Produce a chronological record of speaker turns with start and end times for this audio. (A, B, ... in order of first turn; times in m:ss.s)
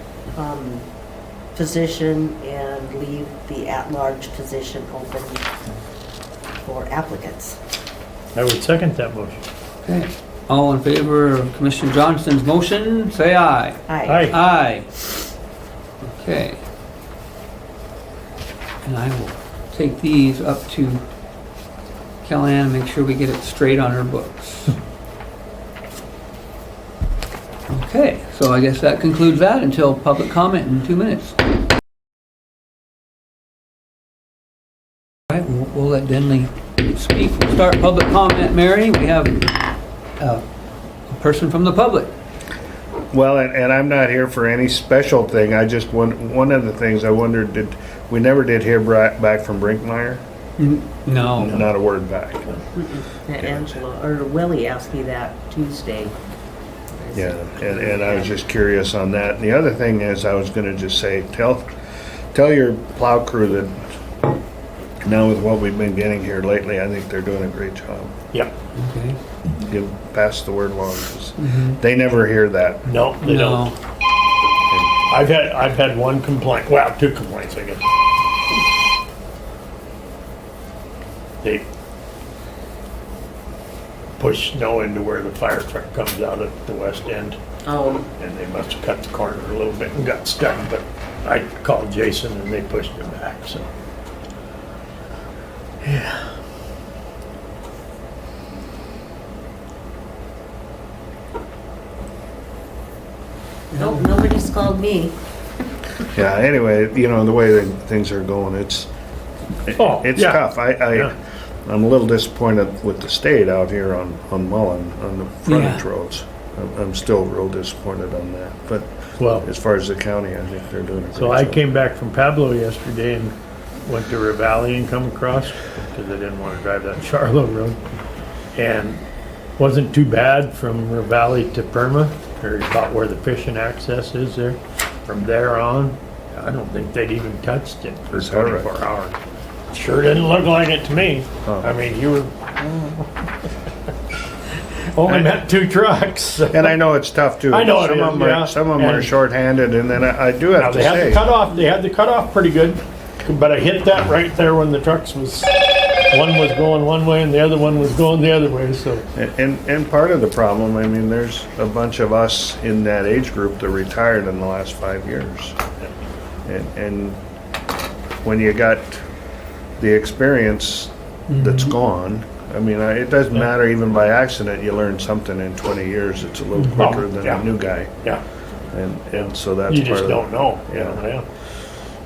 0:00.3-0:00.9 A
0:01.6-0:05.5 A
0:06.6-0:07.6 A
0:08.4-0:09.4 B
0:09.8-0:15.1 C
0:13.9-0:14.3 A
0:14.1-0:14.4 B
0:16.1-0:16.6 C
0:18.8-0:21.0 C
0:22.2-0:24.8 C
0:27.7-0:31.4 C
0:35.3-0:39.5 C
0:40.2-0:40.4 C
0:41.1-0:42.1 C
0:43.1-0:50.2 D
0:50.6-0:51.6 C
0:51.4-0:52.5 D
0:52.6-0:56.1 A
0:57.0-0:58.3 A
0:57.1-1:01.7 D
1:02.3-1:03.8 D
1:05.0-1:08.2 D
1:08.8-1:09.2 C
1:09.6-1:12.9 D
1:11.4-1:11.8 C
1:12.8-1:13.7 B
1:13.2-1:13.8 C
1:14.7-1:15.0 D
1:15.1-1:17.8 B
1:24.2-1:27.4 B
1:27.6-1:28.1 A
1:28.2-1:33.7 B
1:35.8-1:36.2 B
1:43.7-1:44.0 C
1:43.7-1:45.1 A
1:46.1-1:48.9 D
1:49.7-1:51.1 D
1:49.8-1:51.1 B
1:51.7-2:01.6 D
1:55.5-1:55.8 C
1:59.2-1:59.5 B
2:01.2-2:07.8 B
2:08.6-2:09.0 B
2:09.6-2:19.2 B
2:18.2-2:18.7 D
2:19.7-2:23.1 B
2:24.9-2:26.8 B
2:26.5-2:31.2 D
2:27.5-2:29.1 B
2:30.6-2:39.0 B
2:39.2-2:45.6 D
2:46.4-2:47.2 D
2:48.2-2:49.0 D
2:49.8-2:57.9 D
2:51.3-2:51.7 C
2:56.6-2:57.5 B
2:58.7-3:01.0 D
2:59.7-3:01.2 B